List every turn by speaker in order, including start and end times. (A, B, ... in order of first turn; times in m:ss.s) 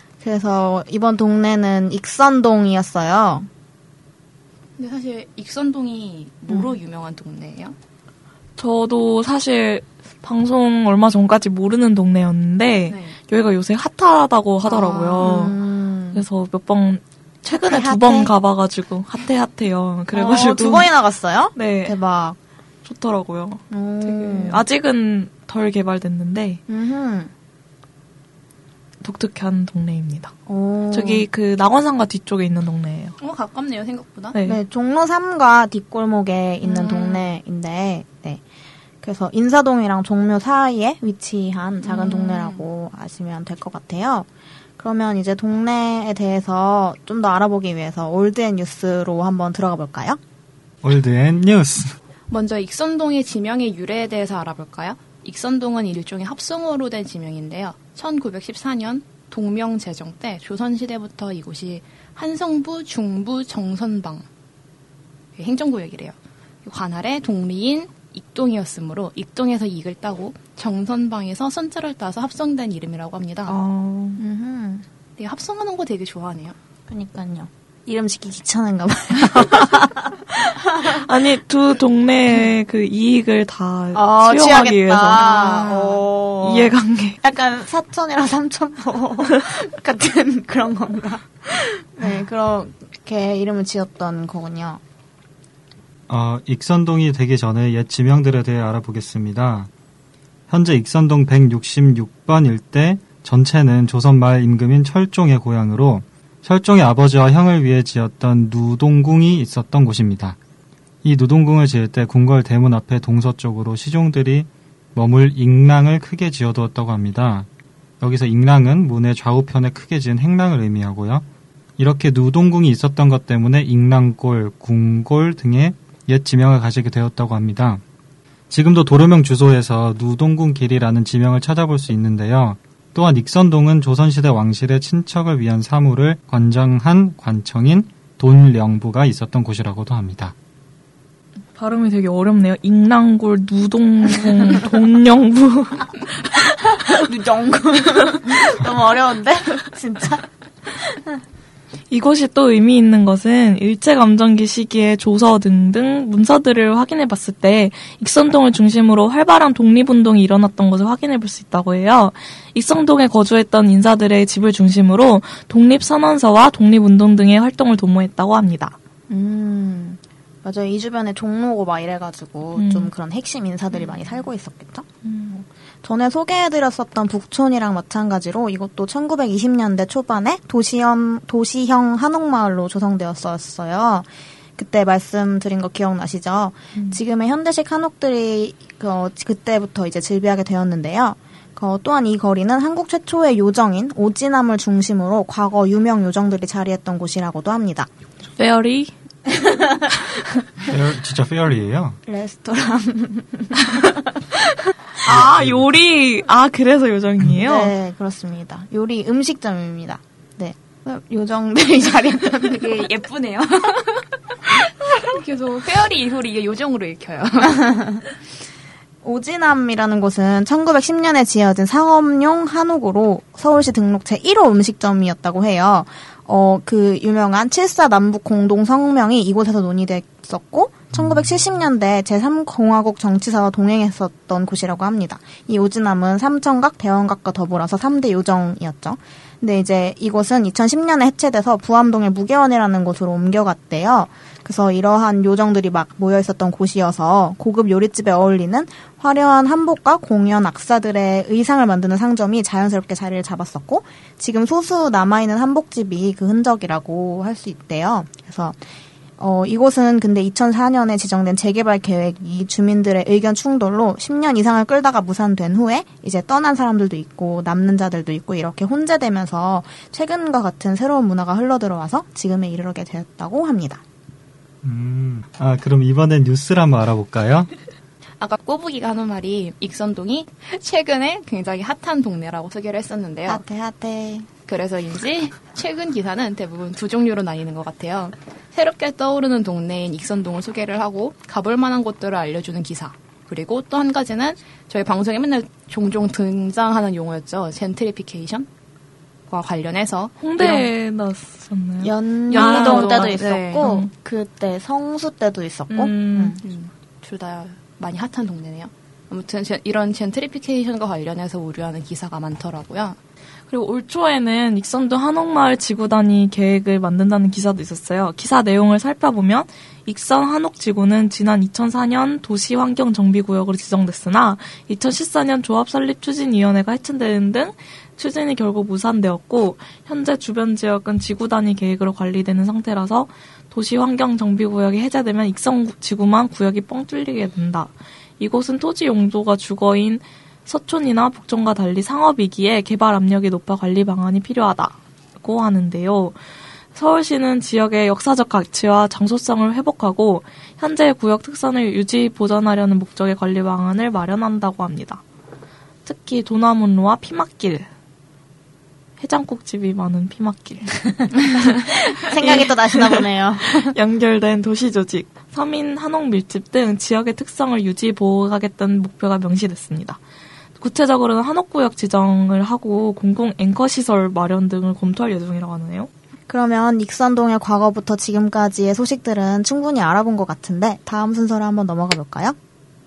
0:00.2-0:03.5 A
0:04.8-0:07.8 B
0:08.6-0:15.6 C
0:12.9-0:13.2 B
0:14.6-0:16.2 A
0:16.1-0:20.9 C
0:17.5-0:18.3 A
0:20.1-0:22.4 A
0:21.5-0:22.0 C
0:22.8-0:26.6 C
0:23.7-0:24.6 A
0:26.7-0:27.3 A
0:29.0-0:30.3 C
0:30.5-0:31.3 A
0:30.9-0:33.1 C
0:33.2-0:34.4 B
0:34.3-0:34.6 C
0:34.4-0:38.4 A
0:36.6-0:37.2 B
0:39.0-0:50.2 A
0:41.8-0:42.6 B
0:50.8-0:52.0 D
0:52.3-1:04.2 B
1:05.4-1:13.6 B
1:13.5-1:14.2 C
1:14.2-1:14.8 A
1:15.2-1:16.6 B
1:16.9-1:21.1 A
1:20.8-1:25.2 C
1:23.9-1:34.8 A
1:25.1-1:26.1 B
1:26.4-1:27.2 C
1:36.1-1:39.7 D
1:40.5-1:50.4 D
1:51.0-1:57.5 D
1:58.0-2:01.2 D
2:01.8-2:07.8 D
2:08.5-2:20.3 D
2:21.6-2:25.9 C
2:26.4-2:31.1 A
2:31.9-2:48.8 C
2:49.1-3:17.9 A
2:52.6-2:52.9 C
3:18.4-3:18.9 C
3:19.3-3:20.0 A
3:20.6-3:22.0 D
3:22.0-3:24.2 A
3:25.0-3:25.6 D
3:25.0-3:27.7 C
3:27.4-3:32.8 A
3:32.4-3:38.0 B
3:37.6-3:38.0 A
3:39.0-4:18.6 A
4:19.2-4:33.8 A
4:34.6-4:37.5 D
4:38.2-4:43.4 B
4:43.3-4:44.3 A
4:44.5-4:58.5 B
4:59.3-5:00.7 B
5:00.2-5:03.9 C
5:01.8-5:06.4 A
5:02.3-5:03.7 B
5:05.7-5:06.4 C
5:06.4-5:13.0 B
5:13.5-5:46.2 C
5:46.7-5:55.0 C
5:55.8-5:57.7 C
5:59.0-6:10.0 C
6:02.0-6:03.7 A
6:10.6-6:15.9 C
6:16.3-6:22.4 A